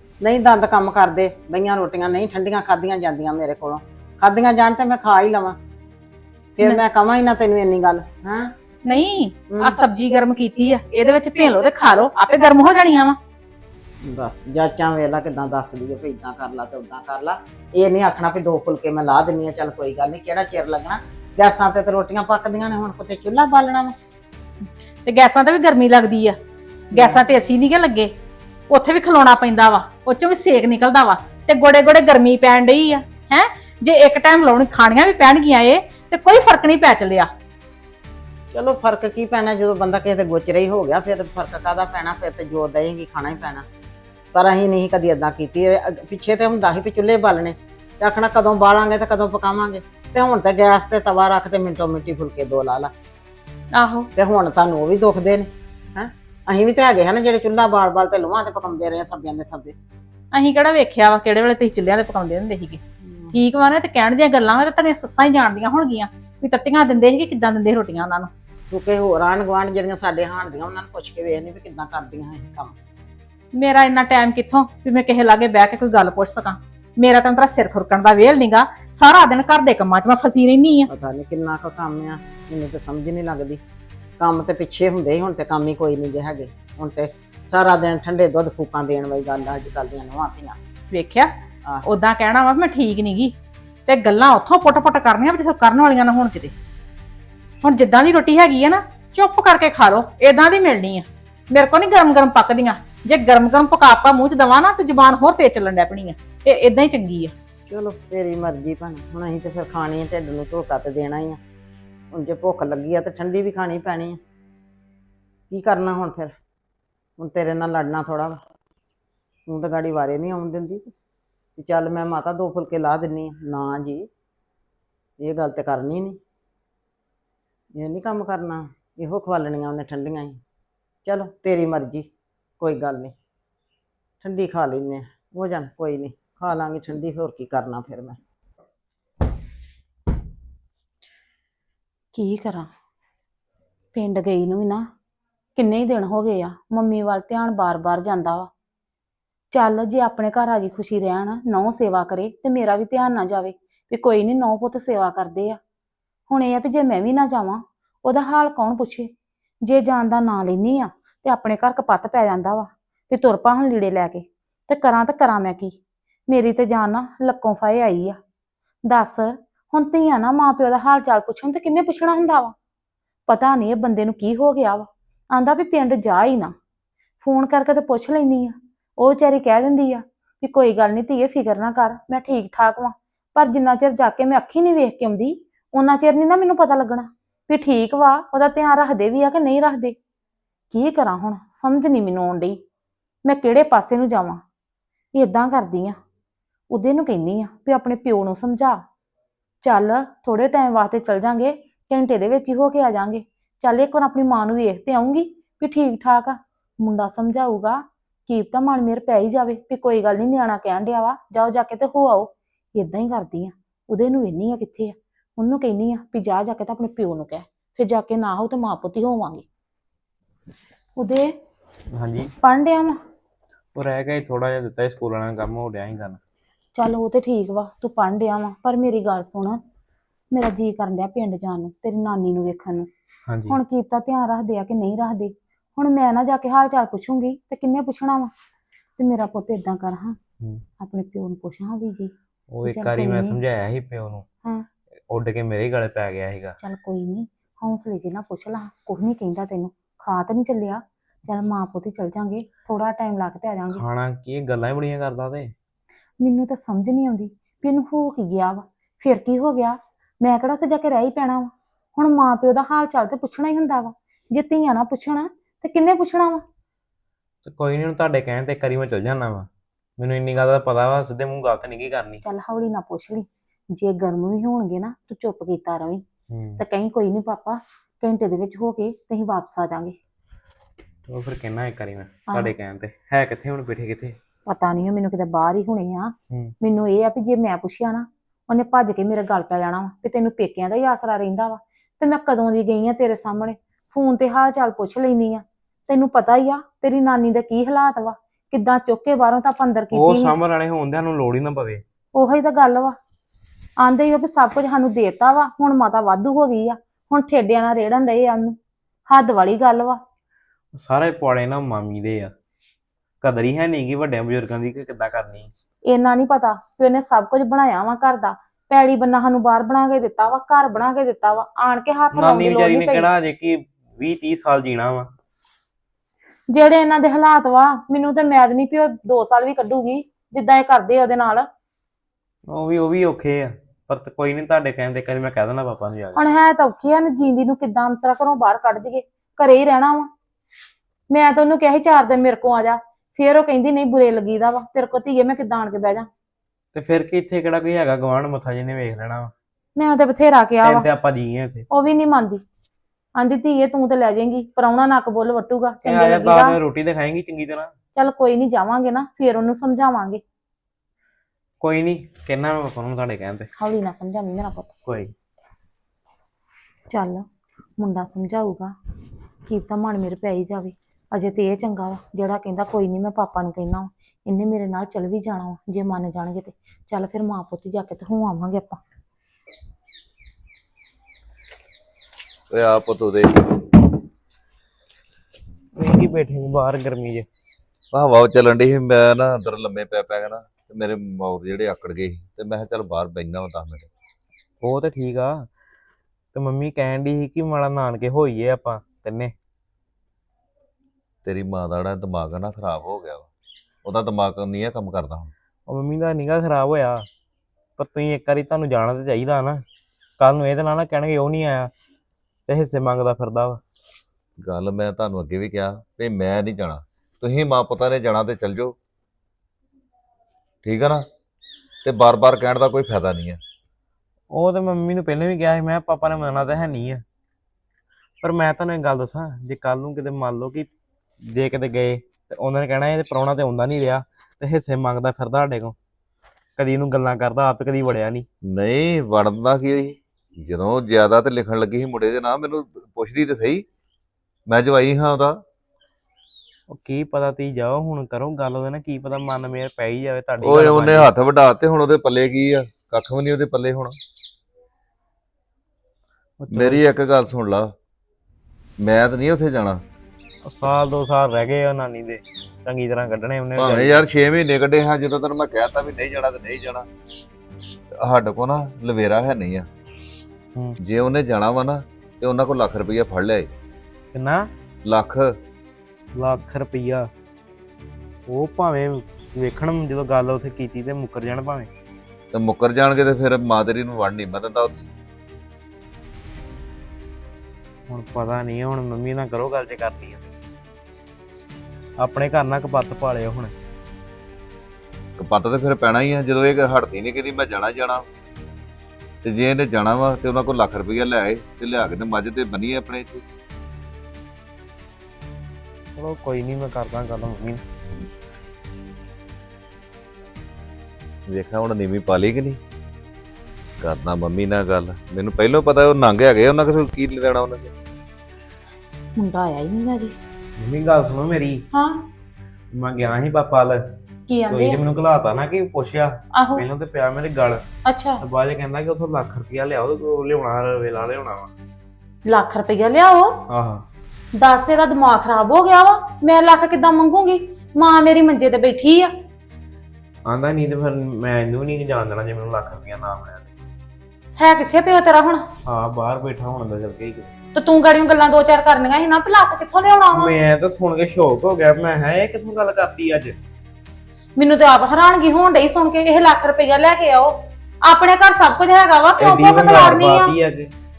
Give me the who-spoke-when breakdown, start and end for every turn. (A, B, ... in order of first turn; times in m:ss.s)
0:00.2-0:05.6 A
0:06.6-0:08.5 A
0:08.8-0:13.2 B
0:14.0-0:23.9 A
0:25.0-0:26.4 B
0:26.9-0:28.1 B
0:26.9-0:27.2 A
0:28.7-0:37.3 B
0:38.5-0:43.6 A
0:44.3-0:52.9 A
0:53.7-0:54.1 B
0:54.2-0:59.7 A
1:00.3-1:02.8 B
1:03.0-1:03.3 A
1:03.3-1:08.3 B
1:08.7-1:12.7 A
1:13.5-1:20.9 B
1:20.9-1:23.6 A
1:24.2-1:30.6 A
1:30.9-1:31.3 B
1:31.8-1:33.3 B
1:33.9-1:36.5 B
1:37.6-1:47.3 B
1:47.7-1:51.4 A
1:52.1-1:54.2 A
1:55.5-1:56.3 A
1:57.2-1:58.4 A
1:59.5-2:00.9 A
2:01.6-2:04.1 A
2:05.2-2:06.2 A
2:07.8-2:10.4 A
2:11.0-2:12.1 A
2:12.6-2:13.1 A
2:14.2-2:18.2 A
2:22.1-2:22.7 C
2:23.9-2:24.9 C
2:25.5-2:28.5 C
2:29.5-2:35.6 C
2:36.3-2:39.1 C
2:39.6-2:48.2 C
2:48.8-2:52.5 C
2:53.3-2:56.5 C
2:57.2-3:10.0 C
3:10.7-3:12.6 C
3:13.2-3:14.4 C
3:15.1-3:16.0 C
3:16.7-3:18.8 C
3:19.6-3:39.4 C
3:41.0-3:41.3 C
3:41.9-3:42.3 D
3:42.4-3:43.0 C
3:43.7-3:46.2 D
3:46.7-3:49.6 C
3:50.3-3:52.9 C
3:53.3-3:53.6 D
3:53.5-3:58.3 C
3:59.0-4:00.2 C
4:00.8-4:02.1 C
4:02.5-4:04.2 D
4:02.6-4:03.4 C
4:05.1-4:06.6 D
4:06.6-4:13.8 C
4:13.8-4:15.5 D
4:16.2-4:26.4 C
4:27.4-4:32.2 D
4:32.2-4:36.0 C
4:36.3-4:36.6 D
4:36.6-4:40.0 C
4:41.1-4:44.2 D
4:44.4-5:00.3 C
4:59.9-5:01.8 D
5:02.1-5:03.0 C
5:03.8-5:08.6 C
5:09.1-5:10.0 C
5:10.7-5:12.3 D
5:13.2-5:15.5 D
5:15.8-5:23.1 C
5:22.1-5:25.1 D
5:26.5-5:31.5 C
5:32.5-5:36.1 D
5:36.1-5:40.1 C
5:41.1-5:46.1 C
5:46.7-5:49.3 D
5:49.8-5:50.8 C
5:50.6-5:51.6 D
5:51.7-5:52.4 C
5:53.2-5:56.6 C
5:55.8-5:57.7 D
5:57.9-6:00.2 C
6:01.6-6:03.5 D
6:03.6-6:04.7 C
6:04.8-6:05.1 D
6:06.9-6:07.2 C
6:07.8-6:08.7 C
6:09.5-6:18.8 C
6:22.5-6:23.6 E
6:25.8-6:27.2 D
6:27.9-6:33.9 E
6:34.6-6:35.5 D
6:36.3-6:39.3 D
6:41.2-6:43.3 E
6:43.8-6:45.3 E
6:45.7-6:47.0 D
6:47.8-6:49.6 D
6:50.2-6:51.7 D
6:52.5-6:53.6 D
6:54.4-6:58.8 E
7:00.6-7:01.0 E
7:01.8-7:03.4 E
7:04.3-7:07.0 D
7:08.2-7:10.7 D
7:11.2-7:15.7 D
7:16.6-7:18.2 D
7:18.5-7:23.6 E
7:24.5-7:25.4 E
7:26.7-7:31.0 D
7:30.4-7:33.9 E
7:36.4-7:36.8 D
7:36.5-7:37.7 E
7:38.8-7:39.8 E
7:40.4-7:43.8 D
7:43.6-7:46.9 E
7:47.9-7:49.7 E
7:50.8-7:53.5 E
7:54.1-7:54.4 D
7:54.8-7:55.3 E
7:56.2-7:57.1 D
7:58.3-8:01.7 D
8:02.3-8:04.9 E
8:07.9-8:10.3 D
8:12.0-8:13.5 D
8:15.2-8:18.0 E
8:19.2-8:23.2 E
8:26.0-8:27.6 D
8:31.3-8:32.6 E
8:33.8-8:37.7 E
8:39.1-8:40.2 C
8:40.6-8:41.6 D
8:41.7-8:42.0 C
8:42.7-8:43.8 D
8:44.3-8:44.8 C
8:44.5-8:47.6 D
8:46.3-8:46.6 C
8:47.8-8:48.2 C
8:48.2-8:51.5 D
8:52.2-8:53.4 C
8:53.5-8:53.8 D
8:54.4-8:59.1 C
9:00.2-9:03.5 D
9:04.4-9:05.4 C
9:05.6-9:07.3 D
9:07.5-9:10.3 C
9:10.1-9:13.4 D
9:14.4-9:20.3 C
9:19.2-9:20.7 D